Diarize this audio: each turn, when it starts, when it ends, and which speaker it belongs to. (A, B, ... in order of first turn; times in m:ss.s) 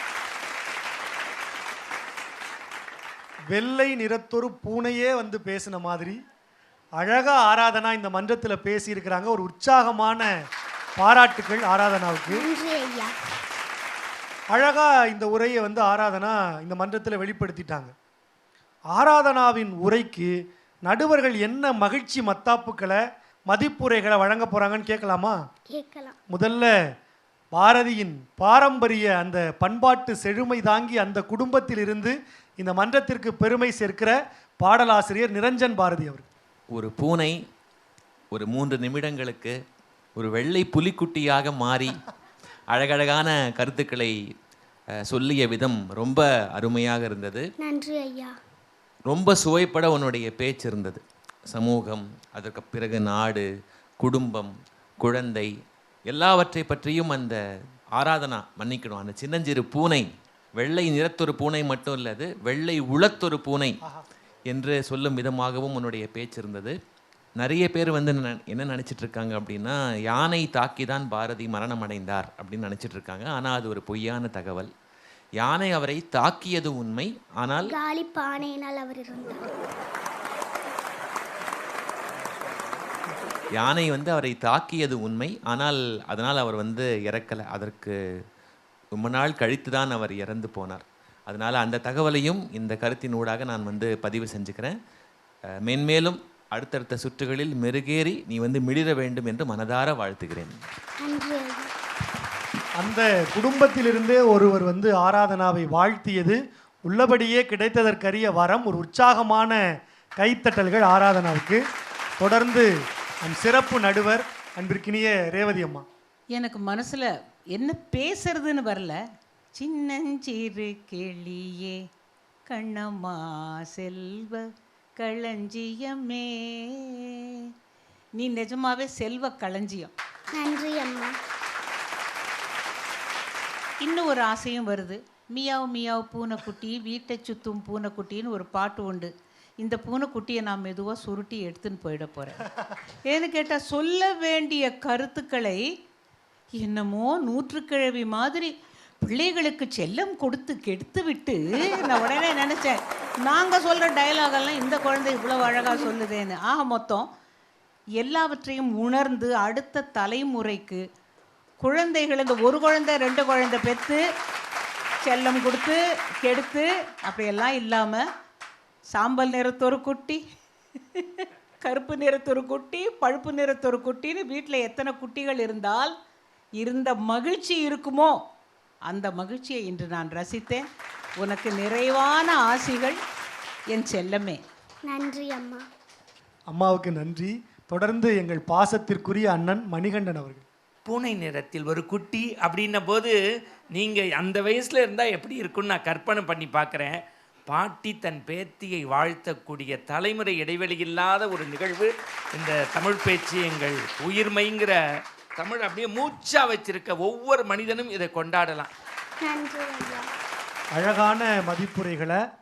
0:03.5-0:06.2 A
0:07.0-0:10.3 A
0:11.0-0:12.4 A
0:12.3-0:13.1 B
0:14.5-0:17.9 A
0:18.9-0:20.3 A
0:20.8-0:23.0 A
0:23.5-0:25.4 A
0:25.7-0:26.2 B
0:26.3-0:26.7 A
0:27.5-0:36.3 A
0:36.7-0:37.3 C
0:38.3-0:39.5 C
0:40.2-0:42.0 C
0:42.7-0:44.1 C
0:45.1-0:47.4 C
0:47.6-0:48.3 B
0:49.1-0:53.4 C
0:54.0-0:54.5 C
0:55.0-0:55.5 C
0:56.1-0:57.4 C
0:58.0-1:00.1 C
1:00.6-1:03.8 C
1:04.5-1:06.7 C
1:07.4-1:14.7 C
1:15.4-1:17.8 C
1:17.6-1:19.4 B
1:23.6-1:27.9 C
1:29.0-1:34.7 C
1:35.7-1:40.5 C
1:41.0-1:41.7 B
1:42.8-1:49.6 A
1:50.2-1:51.6 A
1:52.2-1:52.7 A
1:53.2-1:55.8 A
1:56.3-1:59.0 D
1:59.5-2:01.8 D
2:02.5-2:07.1 D
2:08.2-2:09.9 D
2:10.3-2:11.1 B
2:13.8-2:22.5 D
2:23.1-2:25.6 D
2:26.6-2:37.1 D
2:38.0-2:40.8 D
2:41.6-2:44.0 D
2:45.0-2:48.0 D
2:48.9-2:50.2 D
2:50.9-2:55.9 D
2:56.6-2:58.2 D
2:58.9-3:00.6 D
3:01.2-3:03.0 D
3:03.7-3:04.4 D
3:04.8-3:05.6 B
3:06.5-3:10.4 A
3:10.8-3:13.2 E
3:13.7-3:24.8 E
3:25.4-3:28.7 E
3:29.2-3:30.1 B
3:30.8-3:32.2 A